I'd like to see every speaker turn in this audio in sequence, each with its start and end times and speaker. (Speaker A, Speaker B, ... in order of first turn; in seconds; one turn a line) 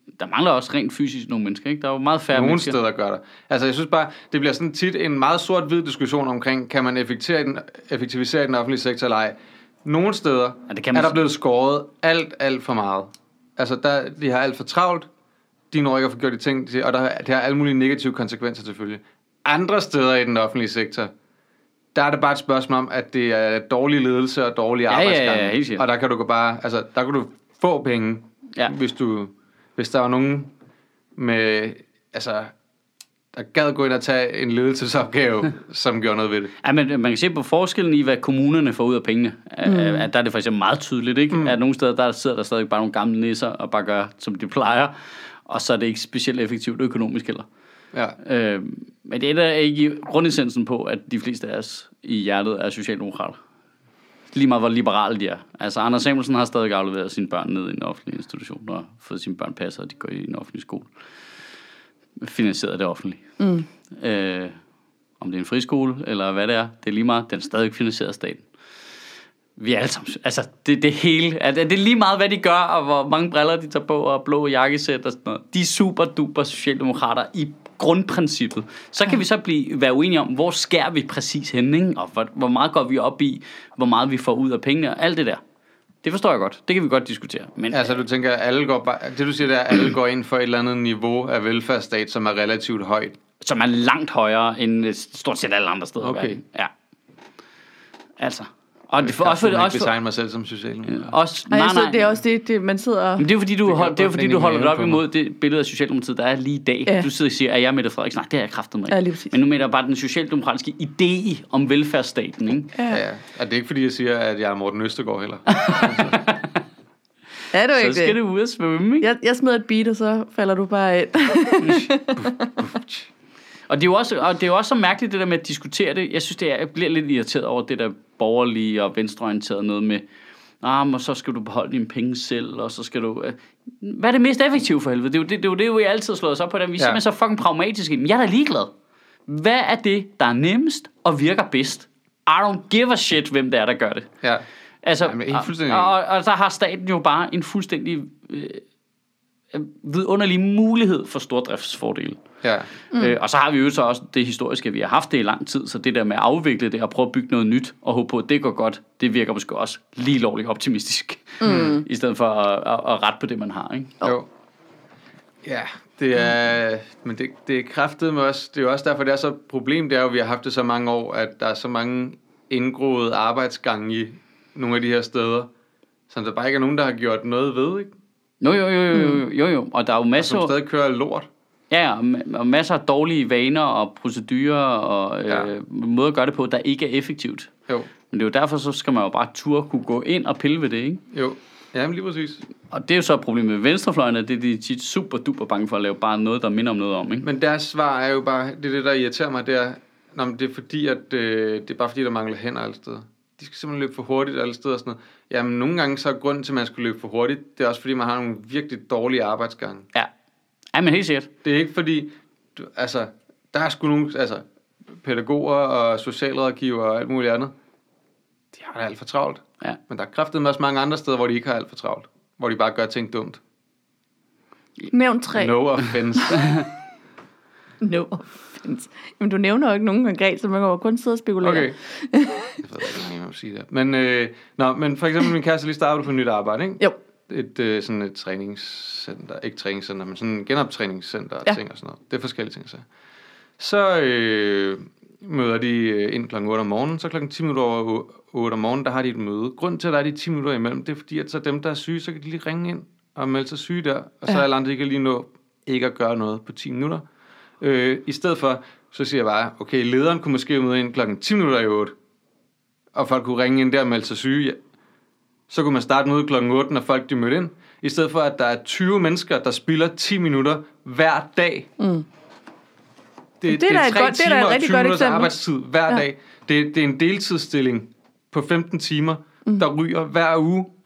Speaker A: 0.2-2.8
Speaker B: 2.3-15.1
Speaker A: 10.7-11.2
Speaker B: 15.7-21.1
Speaker B: 21.9-30.5
Speaker A: 24.9-25.8
Speaker B: 31.2-32.5
Speaker B: 33.3-36.5
Speaker A: 36.6-44.9
Speaker C: 39.6-40.1
Speaker B: 41.3-41.5
Speaker A: 45.5-47.5
Speaker A: 48.2-53.4
Speaker A: 54.3-60.9
Speaker A: 62.2-63.2
Speaker C: 63.4-63.7
Speaker A: 63.9-64.6
Speaker A: 65.2-68.4
Speaker A: 69.6-85.4
Speaker A: 86.0-87.9
Speaker B: 87.7-93.2
Speaker A: 93.4-96.7
Speaker B: 96.0-96.4
Speaker A: 98.2-99.9
Speaker B: 99.0-101.1
Speaker A: 100.9-102.1
Speaker C: 101.5-103.3
Speaker A: 103.2-112.7
Speaker B: 103.6-105.0
Speaker C: 108.9-109.4
Speaker C: 112.7-113.0
Speaker B: 112.9-116.2
Speaker A: 115.6-116.6
Speaker C: 117.5-118.2
Speaker A: 117.7-119.1
Speaker C: 119.0-122.5
Speaker B: 122.1-123.1
Speaker A: 123.7-130.0
Speaker A: 130.6-138.7
Speaker A: 139.3-144.1
Speaker A: 144.8-148.6
Speaker B: 145.0-145.9
Speaker A: 149.5-152.2
Speaker B: 152.4-152.7
Speaker C: 152.9-153.2
Speaker A: 152.9-164.0
Speaker C: 161.4-161.8
Speaker B: 161.4-161.8
Speaker B: 164.0-164.3
Speaker B: 165.4-175.5
Speaker B: 176.1-177.9
Speaker A: 178.4-180.5
Speaker C: 178.9-179.2
Speaker B: 180.2-181.3
Speaker A: 181.7-187.5
Speaker A: 188.1-191.0
Speaker B: 191.1-192.4
Speaker A: 192.7-197.2
Speaker B: 197.2-209.9
Speaker A: 210.7-211.3
Speaker B: 211.4-214.4
Speaker B: 215.0-217.5
Speaker B: 218.5-223.4
Speaker C: 224.9-225.6
Speaker B: 225.3-226.7
Speaker C: 227.8-232.6
Speaker B: 231.4-231.7
Speaker B: 232.6-242.8
Speaker B: 243.6-257.0
Speaker B: 257.6-261.9
Speaker B: 262.9-264.6
Speaker B: 265.5-271.7
Speaker C: 271.8-272.1
Speaker B: 273.4-280.7
Speaker C: 273.5-275.3